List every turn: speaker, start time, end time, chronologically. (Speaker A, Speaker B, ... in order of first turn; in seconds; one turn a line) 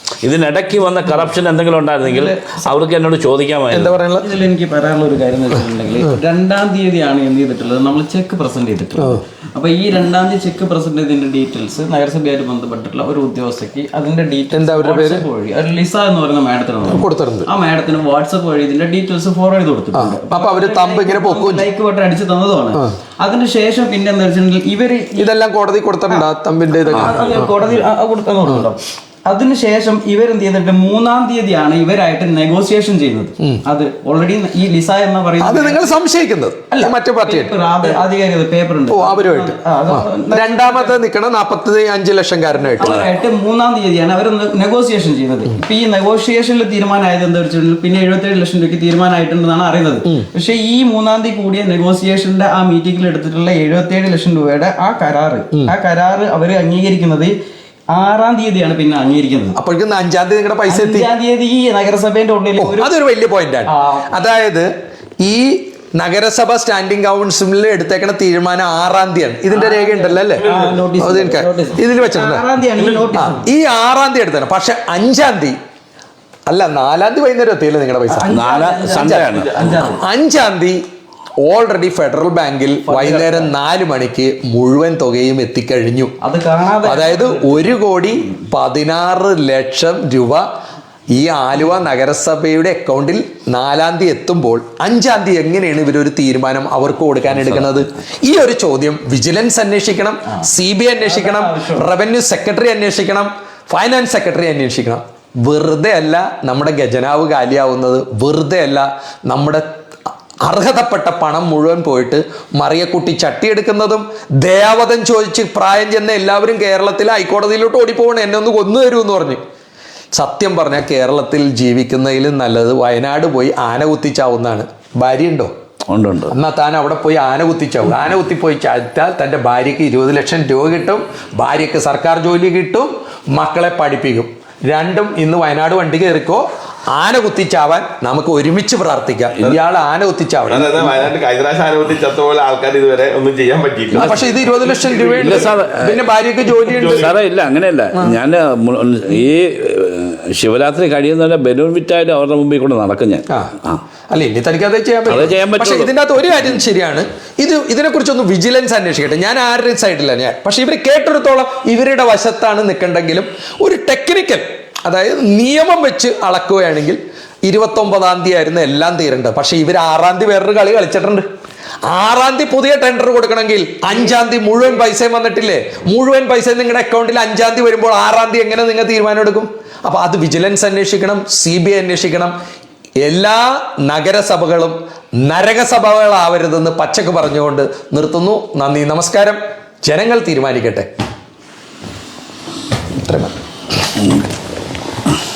Speaker A: 0.2-3.9
Speaker B: 2.0-2.6
Speaker C: 3.7-4.3
Speaker B: 4.2-25.3
Speaker C: 14.5-15.2
Speaker C: 16.9-17.5
Speaker C: 19.9-21.7
Speaker C: 25.2-27.5
Speaker B: 26.8-35.9
Speaker C: 35.4-38.0
Speaker B: 36.7-41.0
Speaker C: 38.9-43.0
Speaker B: 42.8-57.3
Speaker A: 42.8-43.1
Speaker B: 57.9-59.6
Speaker C: 59.5-61.1
Speaker B: 60.7-62.9
Speaker C: 62.6-64.7
Speaker B: 63.7-64.1
Speaker C: 65.2-72.5
Speaker B: 69.5-73.5
Speaker D: 70.3-70.9
Speaker C: 73.1-75.5
Speaker C: 76.5-78.3
Speaker B: 78.1-80.0
Speaker A: 78.3-79.8
Speaker C: 79.0-80.8
Speaker C: 81.4-86.1
Speaker B: 82.8-83.5
Speaker B: 86.2-87.7
Speaker C: 86.8-90.4
Speaker C: 91.1-109.7
Speaker A: 97.4-97.8
Speaker B: 101.0-101.8
Speaker C: 110.5-119.4
Speaker C: 120.1-125.5
Speaker A: 125.9-126.3
Speaker C: 126.3-140.9
Speaker D: 140.5-145.5
Speaker C: 143.9-147.1
Speaker A: 145.2-146.0
Speaker A: 146.7-153.8
Speaker D: 146.7-147.1
Speaker C: 154.1-171.2
Speaker A: 155.1-155.9
Speaker C: 171.9-182.3
Speaker C: 183.0-190.9
Speaker C: 193.0-193.3